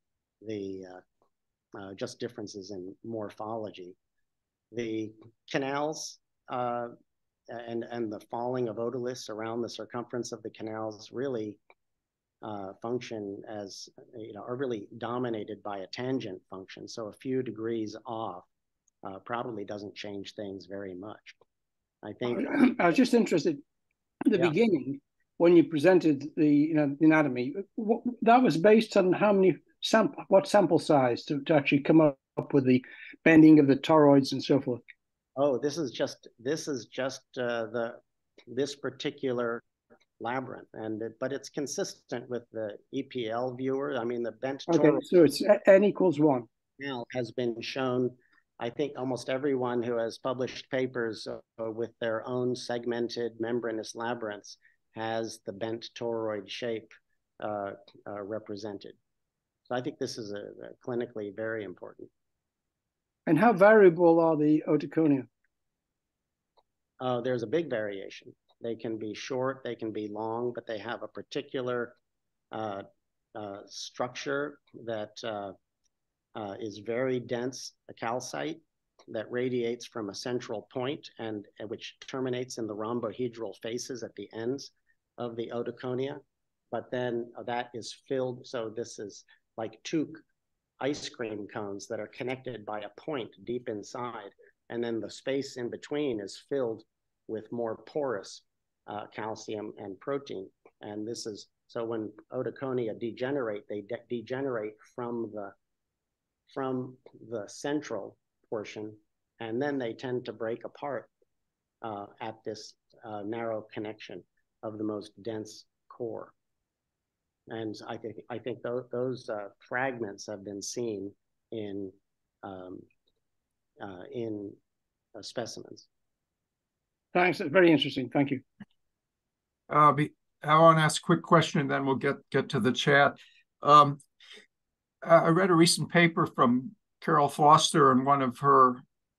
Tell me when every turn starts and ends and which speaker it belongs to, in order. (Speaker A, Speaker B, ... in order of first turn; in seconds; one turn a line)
Speaker A: 0.4-1.0
Speaker A: 1.8-4.0
Speaker A: 4.7-6.9
Speaker A: 7.5-11.6
Speaker A: 12.4-18.5
Speaker A: 19.0-21.4
Speaker A: 22.0-22.9
Speaker B: 22.2-23.6
Speaker B: 24.3-34.8
Speaker A: 35.4-39.6
Speaker A: 40.2-45.0
Speaker B: 44.7-46.5
Speaker A: 46.8-59.0
Speaker A: 59.7-62.1
Speaker B: 63.3-65.3
Speaker A: 67.0-72.0
Speaker A: 72.5-75.6
Speaker A: 76.4-90.2
Speaker A: 90.8-105.5
Speaker A: 106.5-111.1
Speaker A: 111.8-116.3
Speaker A: 117.5-122.8
Speaker A: 123.8-124.6
Speaker A: 125.2-125.9
Speaker B: 127.1-128.4
Speaker C: 129.7-134.0
Speaker C: 135.0-138.8